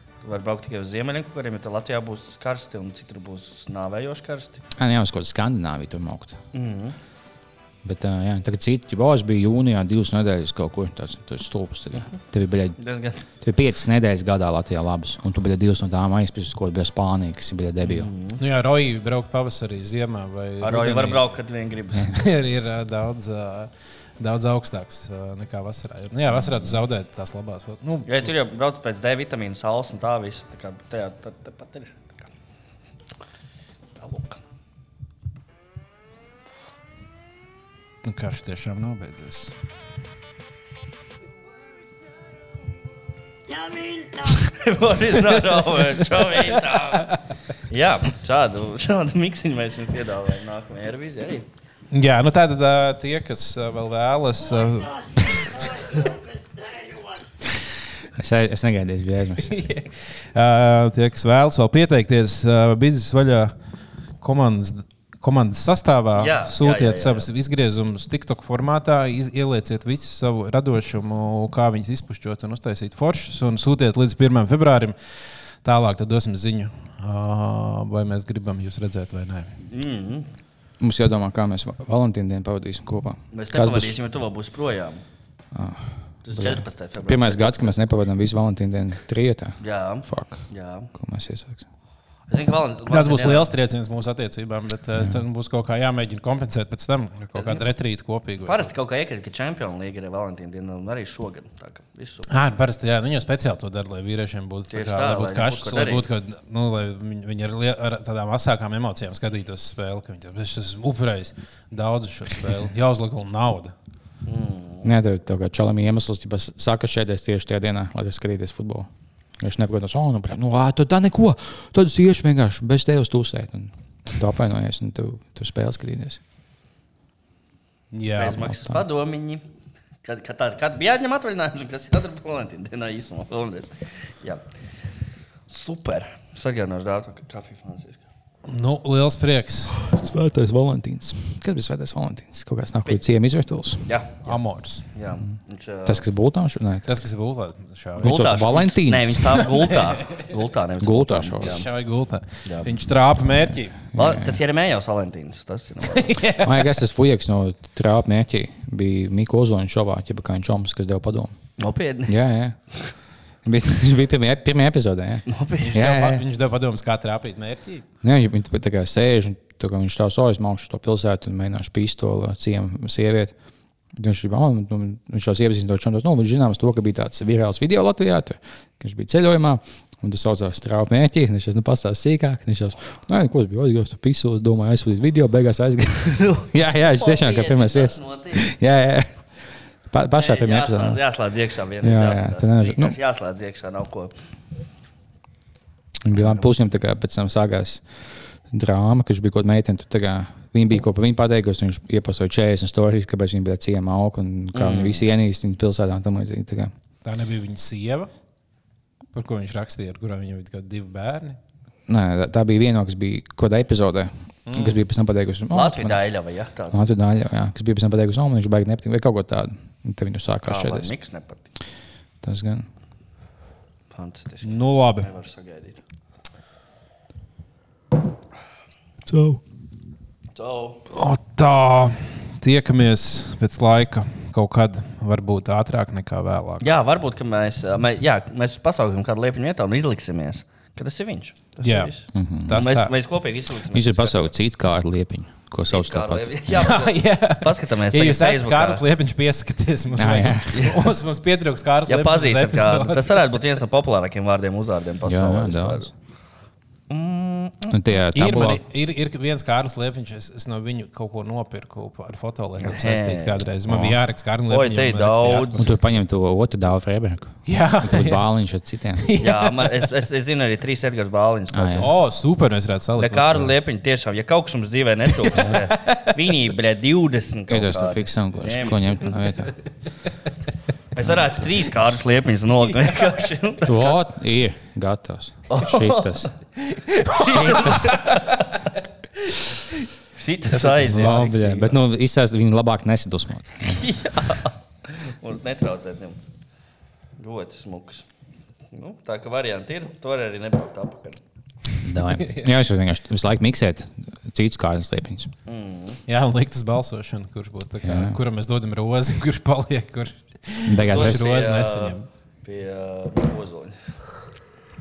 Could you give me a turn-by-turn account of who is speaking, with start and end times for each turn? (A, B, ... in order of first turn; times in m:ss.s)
0:00.2-0:04.6 A
0:04.8-0:06.4 B
0:06.5-0:07.0 A
0:07.8-0:12.8 B
0:12.8-0:13.2 A
0:13.4-0:18.1 B
0:17.8-0:18.4 A
0:18.4-0:21.2 C
0:20.6-0:22.1 A
0:22.0-0:28.3 C
0:28.1-0:32.3 A
0:34.0-0:34.4 A
0:38.0-0:39.5 C
0:43.6-0:47.2 A
0:47.7-0:51.5 A
0:51.9-0:56.0 C
0:58.1-0:59.6 B
0:59.4-1:03.5 C
1:04.2-1:15.0 C
1:06.2-1:07.3 A
1:15.6-1:19.6 C
1:19.6-1:20.3 A
1:20.8-1:23.9 B
1:23.3-1:25.0 A
1:25.5-1:31.6 B
1:26.2-1:27.7 A
1:29.6-1:30.9 A
1:32.3-1:33.5 A
1:32.9-1:38.6 C
1:37.3-1:37.6 A
1:38.4-1:42.3 A
1:42.3-1:53.7 C
1:44.7-1:46.1 A
1:54.3-1:54.9 A
1:54.8-1:58.9 B
1:59.4-2:06.2 B
2:07.9-2:08.4 C
2:08.2-2:09.4 A
2:08.4-2:08.8 B
2:10.0-2:14.4 A
2:15.5-2:18.0 A
2:18.5-2:19.9 C
2:19.8-2:23.9 B
2:23.8-2:24.2 A
2:24.2-2:24.9 C
2:24.9-2:26.0 A
2:25.8-2:26.9 B
2:26.8-2:28.2 C
2:28.0-2:29.7 B
2:28.0-2:31.7 A
2:30.8-2:31.6 B
2:31.4-2:33.8 C
2:32.4-2:32.7 A
2:33.9-2:34.4 B
2:33.9-2:36.2 A
2:35.8-2:36.8 C
2:36.4-2:41.3 B
2:41.6-2:42.2 A
2:42.1-2:42.6 B
2:43.4-2:46.2 B
2:45.3-2:45.8 A
2:45.7-2:47.8 C
2:48.0-2:53.3 B
2:54.0-3:09.2 B
3:06.2-3:08.4 A
3:09.9-3:11.0 B
3:10.1-3:14.1 A
3:11.8-3:13.0 B
3:16.0-3:17.8 B
3:16.2-3:16.4 A
3:18.5-3:26.7 B
3:24.5-3:25.0 A
3:27.0-3:28.1 C
3:29.1-3:31.4 C
3:31.9-3:36.1 B
3:34.5-3:34.8 C
3:35.5-3:36.8 A
3:36.7-3:40.9 B
3:40.4-3:41.5 A
3:42.2-3:42.7 B
3:43.9-3:45.8 A
3:44.4-3:45.1 C
3:49.1-3:49.4 B
3:50.3-3:50.8 A
3:50.9-3:56.7 C
3:56.6-4:04.3 A
4:01.6-4:02.9 C
4:02.1-4:02.6 B
4:03.7-4:06.7 B
4:05.7-4:08.8 A
4:06.5-4:13.4 C
4:09.9-4:10.5 B
4:10.5-4:10.8 A
4:11.9-4:15.9 A
4:15.0-4:15.9 B
4:16.9-4:17.8 A
4:17.7-4:18.6 B
4:18.1-4:25.9 C
4:22.6-4:23.5 A
4:23.7-4:24.0 B
4:24.5-4:25.6 A
4:25.5-4:29.0 B
4:27.4-4:28.2 C
4:29.0-4:29.9 C
4:29.2-4:31.9 A
4:31.5-4:31.9 B
4:31.8-4:33.5 C
4:33.0-4:39.2 A
4:35.3-4:36.2 C
4:37.5-4:39.6 B
4:40.9-4:44.0 A
4:43.6-4:46.3 B
4:45.5-4:46.3 A
4:46.9-4:47.8 C
4:47.1-4:48.7 A
4:47.1-4:48.2 B
4:50.2-4:51.8 A
4:50.6-4:53.9 B
4:50.8-4:51.4 C
4:53.7-4:56.2 A
4:57.2-4:58.1 A
4:58.7-5:01.2 A
5:01.8-5:05.3 B
5:02.2-5:02.5 C
5:05.5-5:06.0 A
5:06.1-5:12.1 C
5:07.8-5:08.2 B
5:10.7-5:11.3 B
5:10.8-5:13.8 A